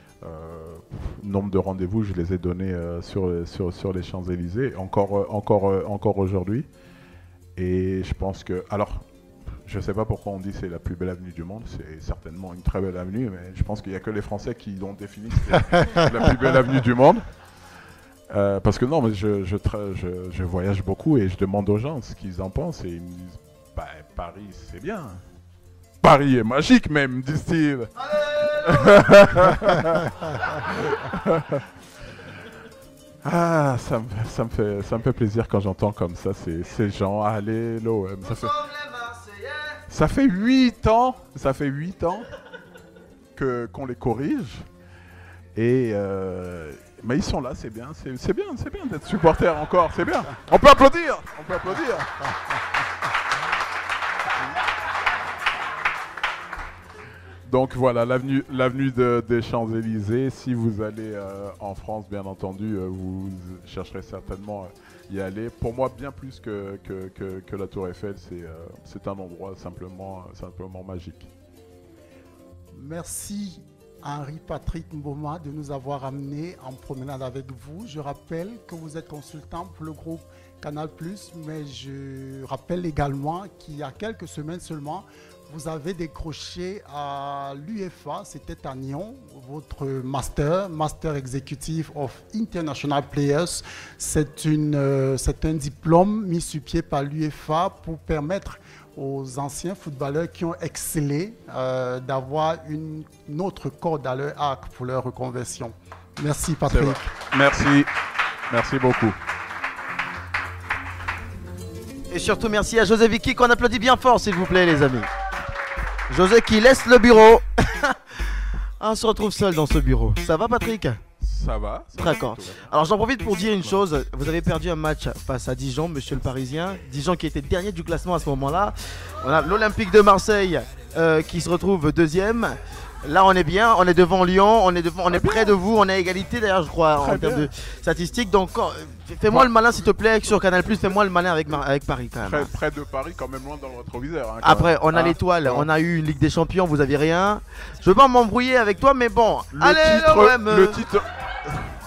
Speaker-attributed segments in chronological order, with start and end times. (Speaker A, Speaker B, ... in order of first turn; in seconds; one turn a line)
Speaker A: 0.2-6.7
Speaker A: 7.6-9.1
Speaker A: 9.7-17.2
Speaker A: 18.3-25.2
Speaker A: 26.0-27.9
Speaker B: 28.1-28.9
Speaker A: 28.5-30.1
Speaker A: 30.6-31.6
Speaker A: 33.2-38.5
Speaker B: 38.2-39.8
Speaker A: 39.9-42.3
Speaker A: 43.4-44.7
Speaker A: 45.5-52.1
Speaker A: 57.5-71.3
Speaker C: 72.8-107.0
Speaker A: 106.7-107.9
Speaker A: 108.5-109.2
Speaker B: 112.1-115.1
Speaker B: 116.1-118.0
Speaker B: 118.8-121.0
Speaker A: 121.2-122.7
Speaker B: 122.0-142.5
Speaker A: 135.1-135.6
Speaker A: 137.0-137.5
Speaker A: 139.3-140.3
Speaker A: 142.2-145.7
Speaker B: 144.4-150.8
Speaker A: 149.5-151.7